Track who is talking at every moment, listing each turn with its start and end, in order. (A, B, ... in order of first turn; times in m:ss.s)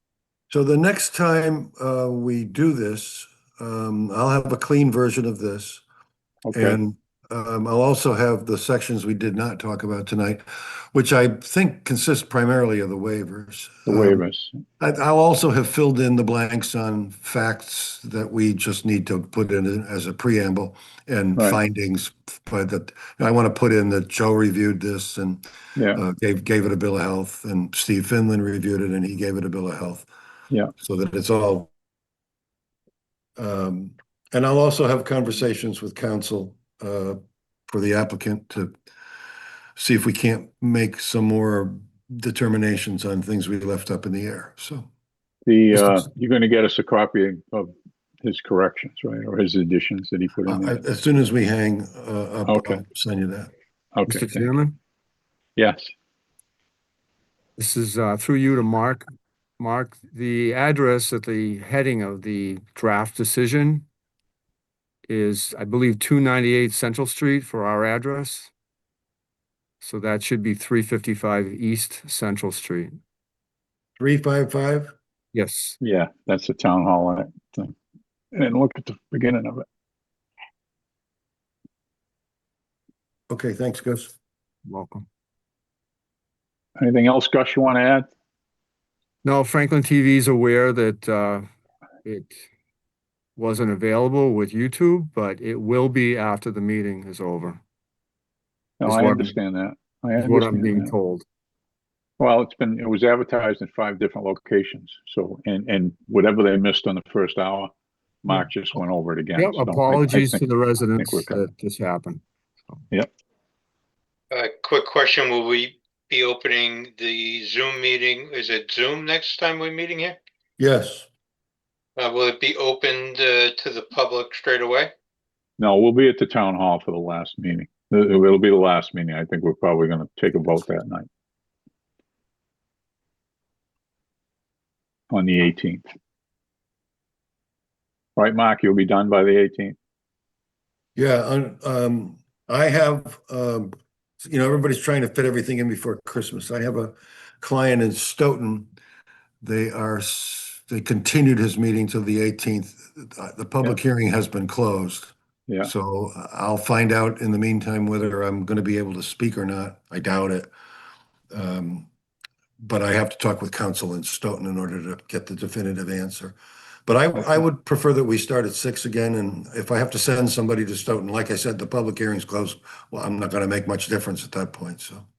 0:00.5-0:05.8 A
0:06.5-0:06.8 B
0:06.5-0:14.2 A
0:13.8-0:14.6 B
0:14.8-0:25.4 A
0:25.8-0:26.0 B
0:25.9-0:30.1 A
0:30.8-0:31.7 A
0:33.4-0:38.7 A
0:39.8-0:44.9 A
0:45.4-0:47.7 B
0:48.2-0:50.8 B
0:50.5-0:53.5 A
0:52.5-0:52.8 B
0:53.9-0:54.5 B
0:54.1-0:54.8 C
0:55.6-0:55.9 B
0:57.6-0:59.0 C
0:59.6-1:03.8 C
1:05.1-1:08.5 C
1:09.8-1:12.9 C
1:14.0-1:14.9 A
1:15.3-1:15.8 C
1:15.8-1:17.7 B
1:18.3-1:19.6 B
1:23.3-1:24.1 A
1:24.7-1:25.0 C
1:26.8-1:28.1 B
1:29.2-1:31.4 C
1:32.0-1:32.5 C
1:33.4-1:37.6 C
1:38.8-1:40.9 B
1:38.8-1:39.3 C
1:40.2-1:41.2 C
1:42.2-1:47.7 B
1:48.2-1:51.4 B
1:49.3-1:52.2 C
1:54.3-2:00.2 D
2:00.6-2:01.1 A
2:02.0-2:04.9 D
2:05.6-2:11.1 B
2:15.1-2:15.8 B
2:18.2-2:19.8 B
2:21.0-2:23.7 A
2:24.2-2:28.7 A
2:29.4-2:40.5 A
2:41.3-2:41.9 A
2:42.6-2:55.0 A